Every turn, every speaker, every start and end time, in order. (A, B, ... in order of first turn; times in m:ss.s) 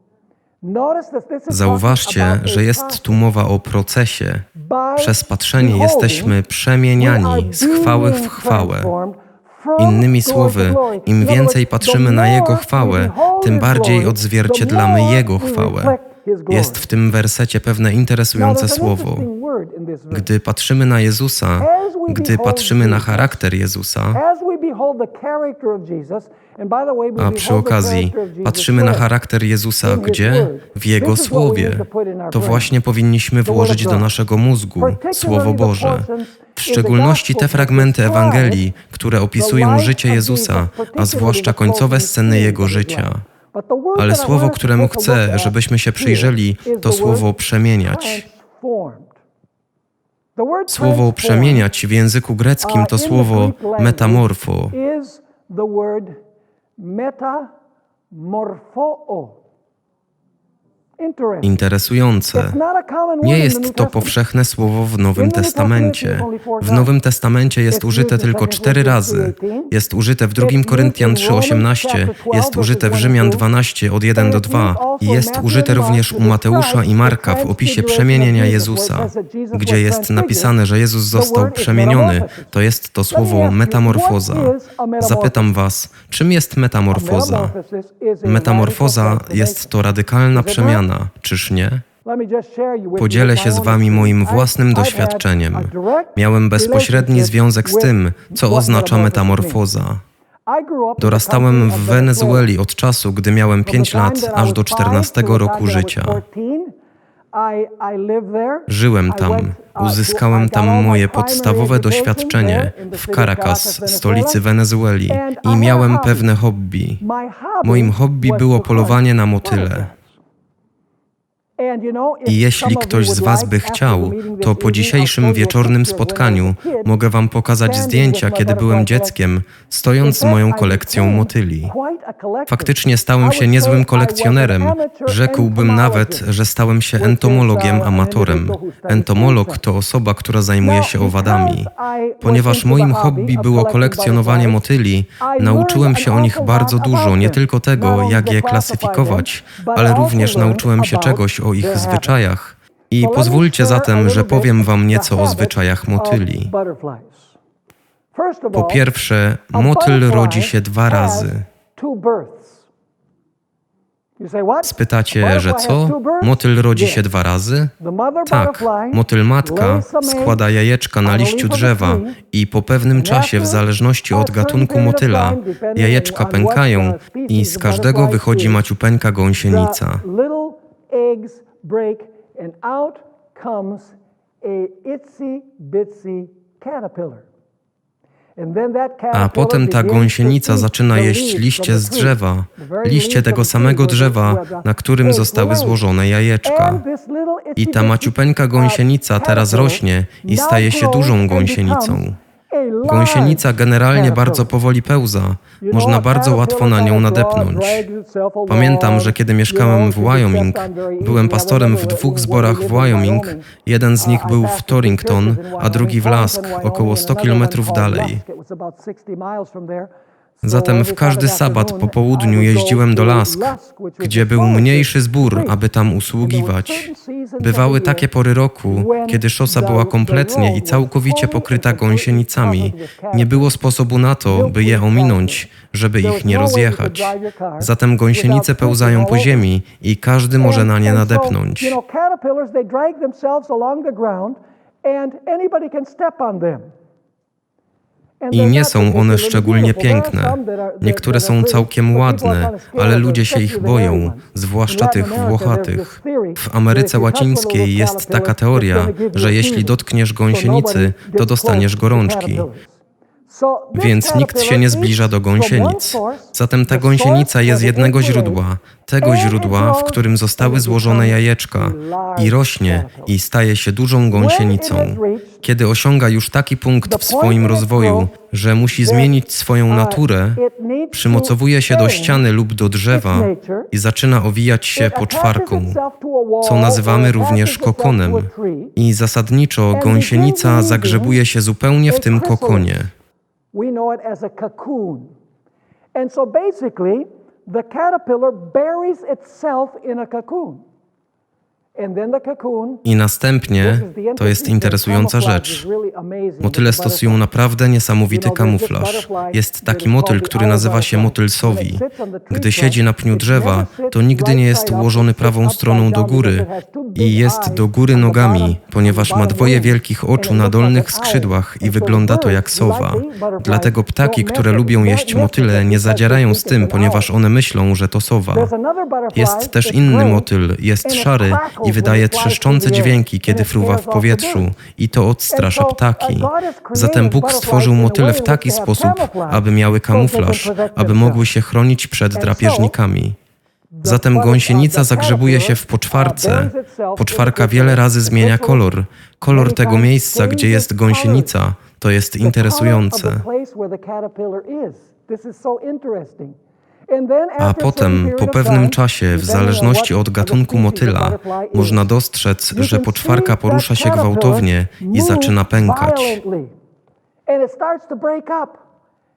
0:00.6-0:03.2 A
0:01.5-0:04.5 B
0:04.6-0:06.4 A
0:05.0-0:08.9 B
0:07.0-0:16.9 A
0:09.8-0:16.0 B
0:16.5-0:19.3 B
0:18.4-0:20.3 A
0:20.1-0:24.2 B
0:21.6-0:23.4 A
0:24.1-0:29.1 A
0:27.2-0:43.2 B
0:29.8-0:32.7 A
0:33.4-0:34.1 A
0:34.8-0:38.7 A
0:39.4-0:49.2 A
0:44.0-0:48.2 B
0:50.4-0:51.7 A
0:50.7-0:54.8 B
0:52.6-0:56.2 A
0:56.8-0:57.5 A
0:58.1-0:59.4 A
1:01.0-1:01.6 A
1:01.4-1:02.6 B
1:02.3-1:04.2 A
1:03.2-1:27.5 B
1:05.2-1:06.9 A
1:07.7-1:09.7 A
1:10.4-1:13.4 A
1:14.1-1:20.5 A
1:21.1-1:22.5 A
1:23.1-1:25.5 A
1:26.9-1:29.7 A
1:28.2-1:31.8 B
1:30.3-1:30.9 A
1:32.0-1:39.6 A
1:33.0-1:40.0 B
1:40.5-1:42.5 A
1:41.0-1:46.2 B
1:43.6-1:46.7 A
1:47.3-1:54.4 A
1:48.7-1:57.0 B
1:55.1-1:56.3 A
1:57.0-2:00.1 A
1:57.6-1:59.9 B
2:01.6-2:06.9 A
2:02.3-2:11.7 B
2:07.6-2:09.2 A
2:10.0-2:16.3 A
2:12.5-2:21.7 B
2:17.0-2:19.6 A
2:20.6-2:24.6 A
2:22.2-2:36.5 B
2:25.2-2:32.2 A
2:33.0-2:37.4 A
2:38.1-2:38.8 A
2:38.5-2:41.4 B
2:39.5-2:42.7 A
2:44.2-2:47.0 A
2:44.6-2:47.7 B
2:47.8-2:50.4 A
2:48.3-3:00.0 B
2:51.0-2:52.2 A
2:53.0-2:58.6 A
2:59.4-3:07.3 A
3:08.4-3:15.8 A
3:09.1-3:16.8 B
3:16.4-3:24.5 A
3:17.6-3:22.2 B
3:22.8-3:27.9 B
3:25.6-3:39.9 A
3:28.5-3:38.2 B
3:40.4-3:45.6 A
3:40.4-4:01.8 B
3:46.2-3:48.1 A
3:48.7-3:53.6 A
3:54.2-3:55.4 A
3:56.0-3:59.5 A
4:00.4-4:06.7 A
4:08.2-4:19.8 A
4:08.3-4:22.5 B
4:20.3-4:28.4 A
4:23.8-4:40.4 B
4:29.0-4:33.1 A
4:34.1-4:35.4 A
4:36.8-4:38.1 A
4:38.7-4:39.1 A
4:39.7-4:42.2 A
4:40.9-4:45.8 B
4:42.9-4:43.7 A
4:44.8-4:48.8 A
4:46.4-4:52.9 B
4:49.7-4:51.2 A
4:51.9-4:52.8 A
4:53.5-4:55.1 A
4:56.0-5:00.6 A
5:01.8-5:02.8 A
5:02.8-5:05.6 B
5:03.6-5:07.2 A
5:06.4-5:28.5 B
5:08.1-5:27.1 A
5:28.3-5:30.3 A
5:29.1-5:43.2 B
5:30.8-5:34.5 A
5:35.3-5:41.2 A
5:42.2-5:42.7 A
5:43.7-5:48.7 A
5:43.8-5:53.2 B
5:49.3-5:51.4 A
5:52.2-5:56.4 A
5:56.9-6:01.9 A
5:57.4-6:06.2 B
6:02.5-6:06.5 A
6:07.3-6:08.6 A